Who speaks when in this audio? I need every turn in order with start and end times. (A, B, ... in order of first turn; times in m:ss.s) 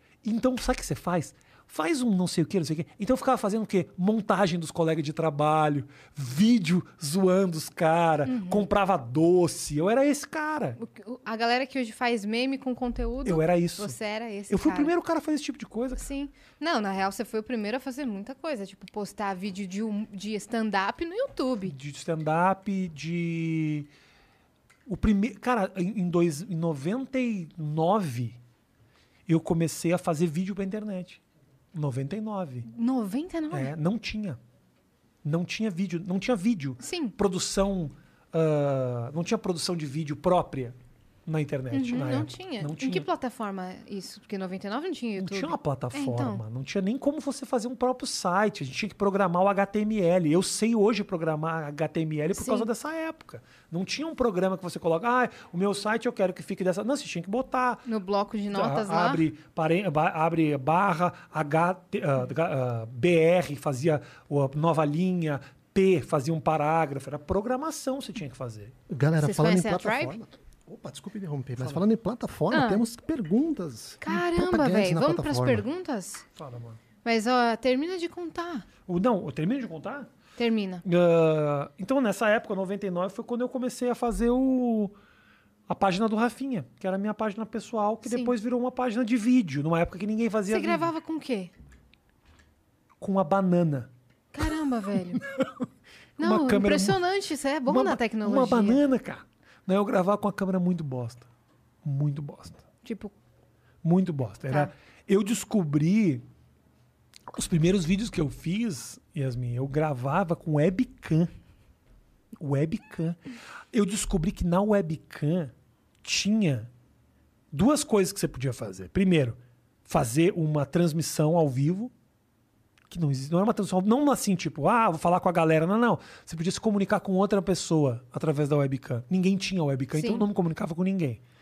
0:00.2-0:10.8 A
0:08.3-0:08.7 B
0:10.8-0:14.9 B
0:13.2-0:14.0 A
0:14.5-0:16.0 A
0:16.0-0:21.8 B
0:21.6-0:23.9 A
0:24.9-0:28.4 A
0:29.3-0:31.2 A
0:31.7-0:32.7 A
0:32.6-0:33.7 B
0:33.5-0:34.4 A
0:35.2-0:43.1 A
0:36.8-0:37.2 B
0:41.7-0:46.4 B
0:45.2-0:57.8 A
0:52.3-0:52.7 B
0:57.9-0:59.3 B
0:58.5-1:08.8 A
1:08.9-1:15.6 C
1:09.2-1:10.2 B
1:11.6-1:11.8 A
1:12.5-1:12.8 B
1:14.0-1:16.2 B
1:16.4-1:16.8 A
1:17.0-1:18.7 B
1:18.9-1:20.1 A
1:20.4-1:20.8 B
1:20.8-1:25.0 A
1:25.7-1:30.9 A
1:28.0-1:28.3 B
1:30.5-1:31.5 B
1:33.0-1:33.9 A
1:34.3-1:35.2 B
1:35.2-1:35.6 A
1:36.2-1:37.0 A
1:36.2-1:38.8 B
1:37.7-1:41.3 A
1:41.8-1:42.6 A
1:42.8-1:43.1 B
1:43.8-1:46.2 A
1:47.3-1:51.3 A
1:52.4-1:53.2 A
1:53.7-1:56.7 A
1:57.5-2:01.9 A
2:02.9-2:11.2 A
2:09.9-2:10.3 B